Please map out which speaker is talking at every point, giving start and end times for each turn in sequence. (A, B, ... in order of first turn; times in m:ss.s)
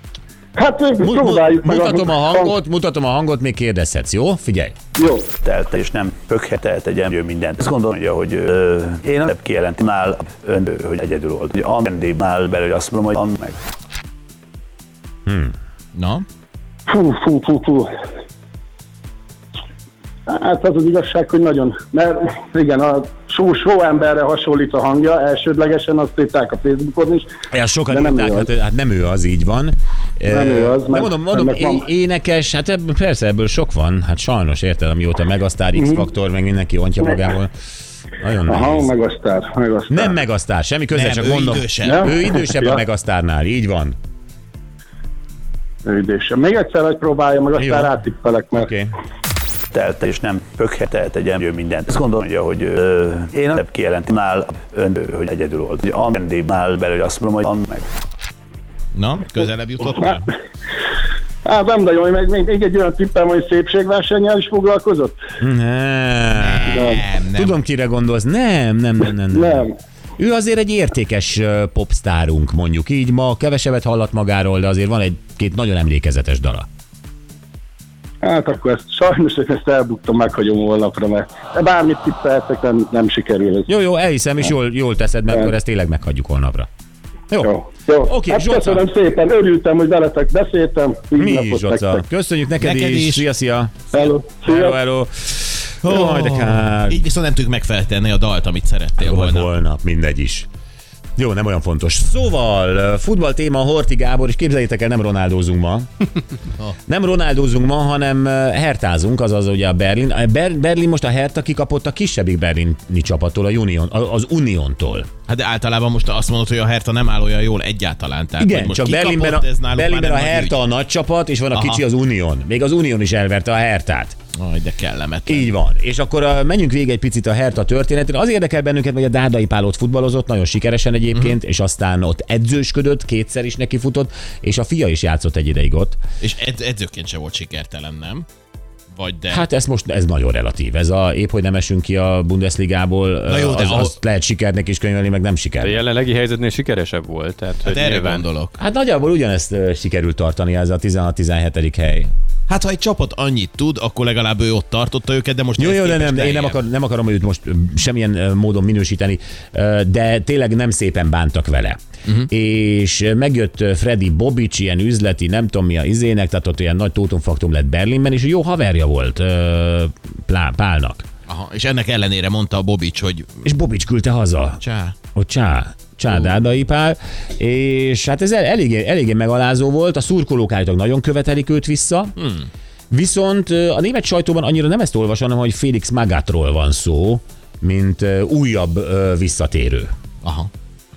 0:00.6-0:02.5 A
0:01.0-0:04.7 B
0:05.0-0:05.3 A
0:05.4-0:13.6 C
0:15.3-0:15.5 B
0:16.0-0:16.2 D
0:16.9-0:17.9 A
0:20.3-0:27.3 A
0:27.5-0:37.5 B
0:27.9-0:28.5 A
0:30.3-0:31.9 A
0:38.2-0:38.9 B
0:38.5-0:40.2 A
0:39.9-0:44.0 B
0:40.9-0:42.1 D
0:41.8-0:42.8 A
0:45.8-0:48.7 A
0:47.6-0:47.9 B
0:48.6-0:48.9 B
0:49.7-0:57.8 C
0:58.9-1:00.3 D
1:01.4-1:05.2 A
1:05.4-1:16.7 B
1:06.4-1:07.6 D
1:09.3-1:09.7 A
1:18.2-1:23.7 A
1:23.7-1:26.7 B
1:27.4-1:32.0 A
1:28.0-1:28.8 B
1:31.2-1:37.0 B
1:32.6-1:33.2 D
1:33.9-1:34.8 A
1:35.8-1:39.5 D
1:39.0-1:40.5 B
1:41.2-1:45.9 B
1:46.9-1:55.1 B
1:55.3-2:00.6 D
1:58.4-2:04.2 B
2:01.5-2:01.8 D
2:04.4-2:05.5 D
2:05.3-2:16.0 B
2:16.2-2:18.3 D
2:18.9-2:19.4 D
2:19.3-2:25.8 B
2:23.3-2:24.0 D
2:25.6-2:28.3 E
2:27.6-2:28.6 D
2:28.6-2:32.1 B
2:32.5-2:36.6 D
2:35.6-2:51.0 B
2:51.3-2:53.4 D
2:53.4-2:54.6 B
2:54.6-2:54.9 D
2:55.2-3:02.2 B
3:02.2-3:02.5 D
3:02.9-3:09.9 B
3:10.2-3:10.5 D